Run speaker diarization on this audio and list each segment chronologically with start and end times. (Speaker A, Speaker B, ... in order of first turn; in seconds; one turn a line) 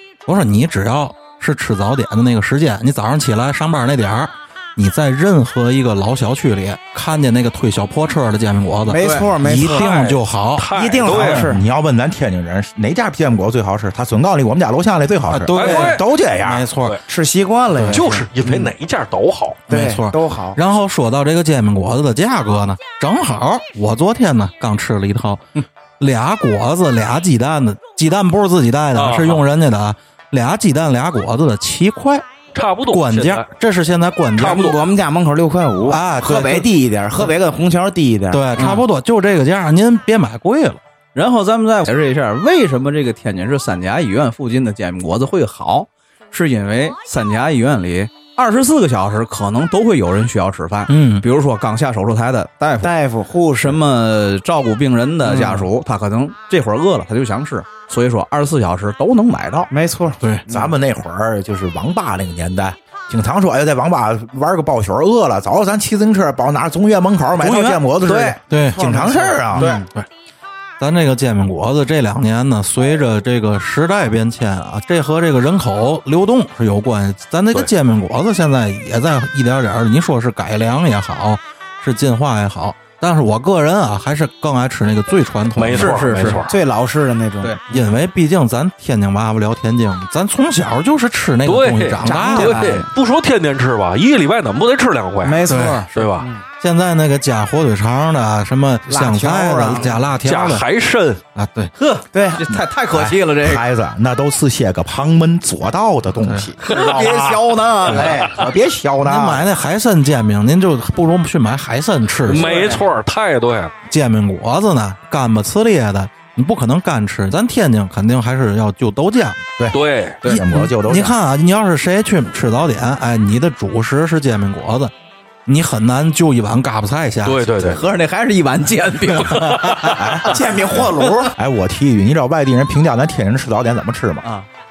Speaker A: 0.3-10.7
Speaker B: 8.9-10.2
Speaker C: 9.0-9.3
Speaker D: 10.6-11.5
Speaker B: 10.7-11.6
Speaker E: 11.1-16.7
Speaker A: 15.3-17.0
Speaker D: 15.5-16.0
Speaker B: 17.1-18.7
Speaker D: 17.9-19.6
Speaker B: 19.7-20.6
Speaker A: 19.7-32.3
Speaker D: 29.0-29.4
Speaker D: 32.5-33.5
Speaker A: 32.9-34.7
Speaker D: 34.4-34.8
Speaker B: 34.4-38.7
Speaker A: 35.9-36.7
Speaker A: 38.3-40.8
Speaker C: 38.6-38.8
Speaker C: 41.1-52.9
Speaker A: 50.9-51.2
Speaker B: 52.8-53.8
Speaker C: 53.5-59.7
Speaker B: 59.7-60.7
Speaker E: 60.5-69.7
Speaker C: 67.4-68.4
Speaker A: 68.5-68.8
Speaker B: 68.6-69.9
Speaker A: 69.5-70.1
Speaker A: 70.8-86.1
Speaker D: 85.6-86.5
Speaker C: 85.7-86.5
Speaker B: 86.5-87.6
Speaker A: 87.7-92.7
Speaker D: 91.5-96.3
Speaker B: 92.0-92.9
Speaker B: 95.2-96.4
Speaker A: 95.5-95.9
Speaker A: 96.6-100.7
Speaker B: 98.9-100.0
Speaker D: 100.2-101.2
Speaker A: 101.3-101.7
Speaker C: 101.8-103.6
Speaker B: 102.1-102.5
Speaker E: 102.9-109.5
Speaker A: 106.2-106.5
Speaker C: 106.6-108.3
Speaker D: 106.7-107.0
Speaker B: 107.9-108.5
Speaker A: 109.0-112.5
Speaker D: 112.3-113.7
Speaker B: 112.3-112.8
Speaker A: 113.9-119.4
Speaker E: 119.6-121.2
Speaker D: 119.7-120.2
Speaker A: 120.3-124.9
Speaker A: 125.5-127.8
Speaker D: 127.2-127.8
Speaker C: 127.6-130.3
Speaker A: 129.2-129.9
Speaker E: 129.9-130.5
Speaker B: 130.2-131.4
Speaker E: 131.3-134.3